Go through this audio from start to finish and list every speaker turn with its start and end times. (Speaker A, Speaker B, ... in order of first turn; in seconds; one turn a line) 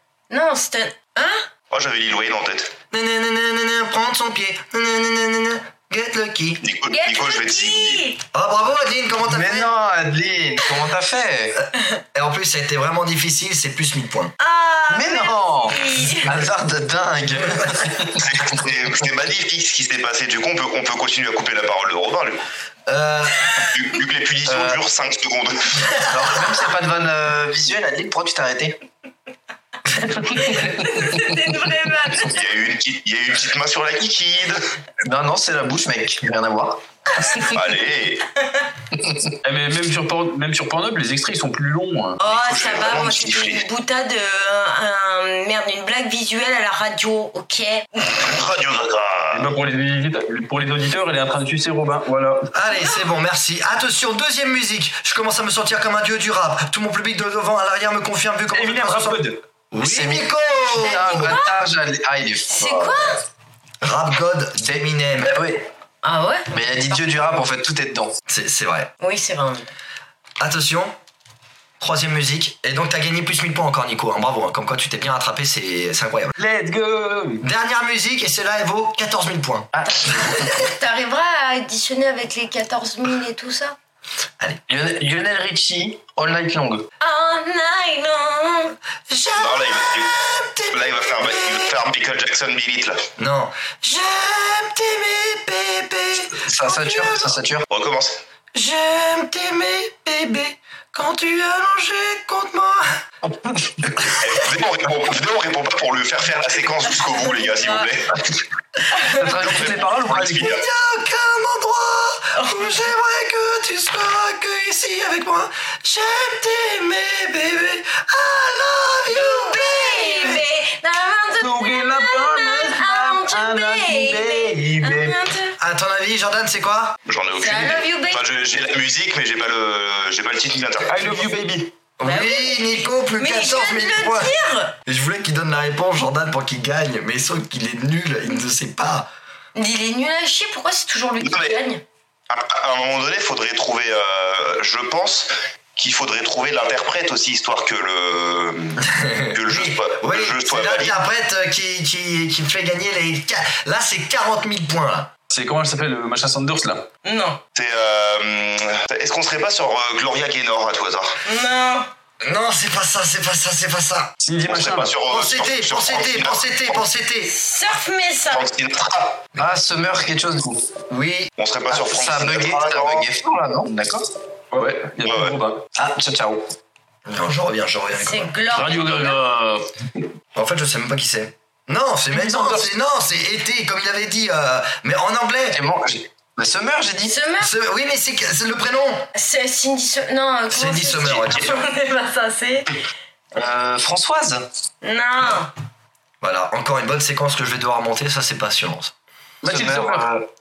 Speaker A: 0.3-1.5
Speaker B: 1.7-2.8
Speaker C: 2.9-6.6
Speaker B: 6.6-8.0
Speaker A: 6.9-8.2
Speaker C: 8.3-9.7
Speaker D: 9.3-11.6
Speaker C: 11.6-14.3
Speaker A: 14.4-16.3
Speaker D: 14.9-18.2
Speaker C: 17.6-17.9
Speaker B: 18.2-22.4
Speaker C: 22.9-23.5
Speaker B: 23.7-26.0
Speaker D: 24.5-24.8
Speaker D: 26.1-28.8
Speaker D: 30.0-30.9
Speaker A: 30.3-32.4
Speaker B: 32.2-34.6
Speaker D: 35.1-36.8
Speaker A: 37.1-37.6
Speaker B: 37.4-38.2
Speaker A: 38.4-38.7
Speaker D: 38.9-39.3
Speaker E: 39.4-42.2
Speaker A: 42.2-48.3
Speaker B: 42.2-43.6
Speaker B: 48.2-49.5
Speaker E: 49.3-52.5
Speaker C: 52.5-61.4
Speaker E: 58.5-59.4
Speaker D: 59.8-63.1
Speaker A: 60.8-61.6
Speaker A: 62.5-63.2
Speaker C: 63.8-65.4
Speaker D: 64.6-65.6
Speaker A: 66.0-66.5
Speaker D: 66.5-68.2
Speaker C: 68.3-68.9
Speaker A: 69.0-69.7
Speaker C: 70.4-70.9
Speaker C: 71.8-76.3
Speaker E: 76.4-77.4
Speaker C: 77.4-80.2
Speaker D: 79.7-80.6
Speaker A: 80.4-83.8
Speaker D: 84.7-86.9
Speaker A: 87.0-88.8
Speaker C: 89.1-91.8
Speaker B: 89.4-90.1
Speaker B: 90.7-93.0
Speaker C: 93.2-97.4
Speaker D: 96.4-97.7
Speaker B: 97.7-98.2
Speaker C: 98.5-103.0
Speaker C: 103.9-104.5
Speaker B: 104.2-108.4
Speaker A: 108.9-109.2
Speaker D: 109.1-110.6
Speaker B: 109.2-110.6
Speaker C: 110.2-120.5
Speaker A: 112.3-112.7
Speaker A: 119.1-125.6
Speaker E: 121.4-125.2
Speaker C: 125.6-127.0
Speaker B: 127.1-131.2
Speaker A: 127.4-128.2
Speaker E: 130.8-131.7
Speaker C: 132.0-134.3
Speaker A: 132.0-134.8
Speaker C: 134.9-139.1
Speaker A: 139.6-141.8
Speaker B: 141.2-141.6
Speaker B: 142.3-151.0
Speaker C: 148.8-155.1
Speaker E: 155.3-156.9
Speaker A: 157.0-157.4
Speaker B: 157.6-161.2
Speaker A: 161.2-161.9
Speaker C: 162.2-164.1
Speaker E: 164.2-165.0
Speaker B: 164.4-166.8
Speaker C: 165.1-167.3
Speaker A: 167.3-168.5
Speaker B: 168.3-169.2
Speaker D: 169.4-170.7
Speaker C: 170.9-171.3
Speaker B: 171.4-173.1
Speaker D: 171.7-174.1
Speaker E: 174.5-175.6
Speaker B: 175.0-175.4
Speaker D: 175.8-176.5
Speaker C: 177.1-178.4
Speaker A: 177.9-179.2
Speaker E: 178.5-179.7
Speaker C: 180.3-185.6
Speaker E: 182.1-182.7
Speaker D: 185.5-187.2
Speaker A: 187.0-187.5
Speaker C: 187.4-189.1
Speaker A: 189.1-192.7
Speaker C: 190.5-191.6
Speaker D: 193.3-194.5
Speaker A: 194.8-195.5
Speaker C: 196.2-198.9
Speaker E: 199.4-200.1
Speaker D: 199.5-200.3